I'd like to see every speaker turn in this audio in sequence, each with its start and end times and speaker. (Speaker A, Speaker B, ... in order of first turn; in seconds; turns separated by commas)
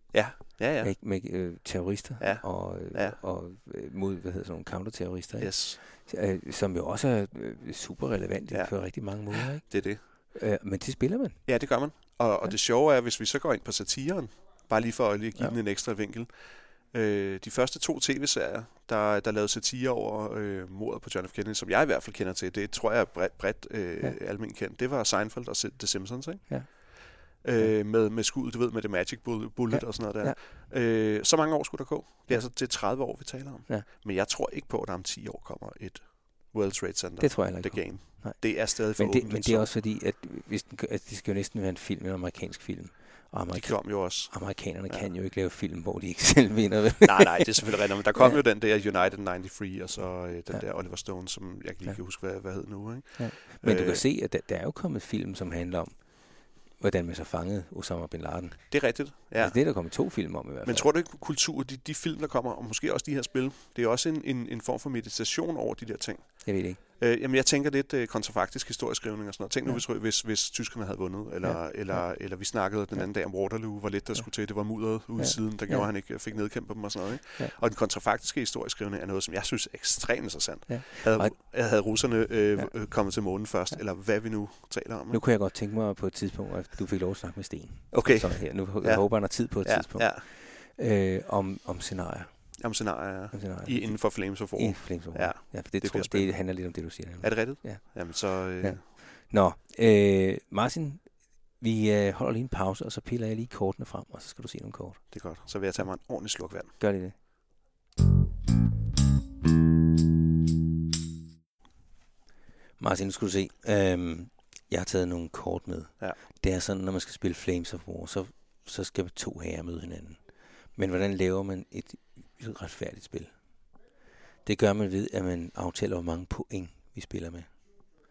Speaker A: 0.1-0.9, Speaker B: 0.8-11.4, Speaker A: 2.2-3.2, Speaker A: 5.4-5.8, Speaker A: 8.5-10.0, Speaker A: 11.5-26.9, Speaker B: 26.5-27.7, Speaker A: 27.4-39.7, Speaker B: 29.7-30.4, Speaker B: 37.2-48.4, Speaker A: 43.5-45.1, Speaker A: 47.0-54.0, Speaker B: 53.1-60.9, Speaker A: 58.7-59.7, Speaker A: 60.6-85.2, Speaker B: 66.4-66.8, Speaker B: 71.4-72.1, Speaker B: 75.2-75.9, Speaker B: 80.7-81.3, Speaker B: 85.1-92.6, Speaker A: 87.9-90.2, Speaker A: 92.6-98.8, Speaker B: 93.3-105.1, Speaker A: 105.1-106.8, Speaker B: 106.8-107.2, Speaker B: 112.8-123.4, Speaker B: 124.5-127.5